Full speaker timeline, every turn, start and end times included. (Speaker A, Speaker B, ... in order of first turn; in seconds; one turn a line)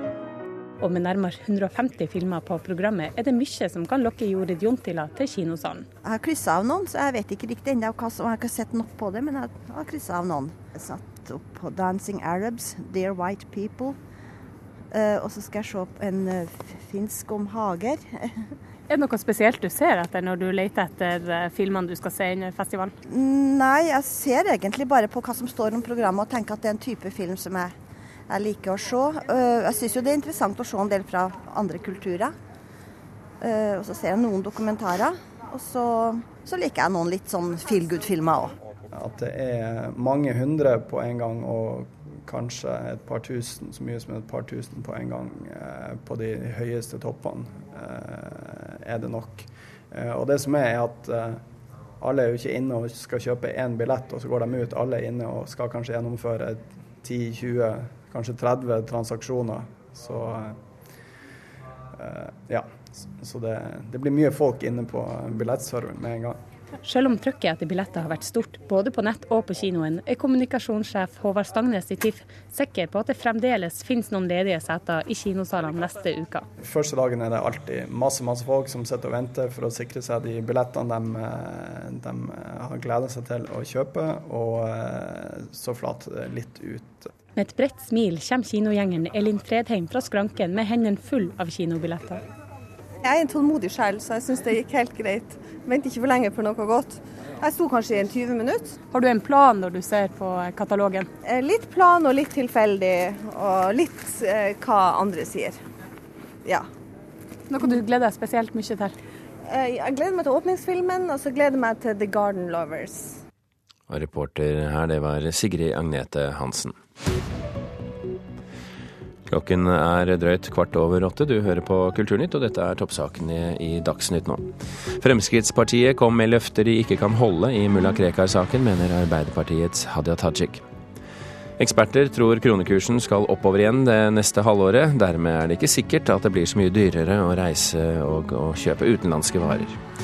Speaker A: 0.8-5.9
Speaker B: 6.0-14.0
Speaker B: 14.9-18.3
Speaker A: 18.9-22.9
Speaker B: 23.1-27.7
Speaker B: 28.3-32.3
Speaker B: 33.4-38.5
Speaker C: 38.9-51.4
Speaker C: 52.0-60.6
Speaker C: 62.0-66.4
Speaker A: 66.8-76.5
Speaker C: 76.6-87.1
Speaker A: 87.3-92.2
Speaker D: 93.1-96.9
Speaker D: 97.4-98.7
Speaker A: 98.9-101.1
Speaker D: 101.3-105.5
Speaker A: 107.5-108.9
Speaker D: 109.5-112.9
Speaker E: 113.9-116.7
Speaker E: 119.3-130.6
Speaker E: 131.6-139.8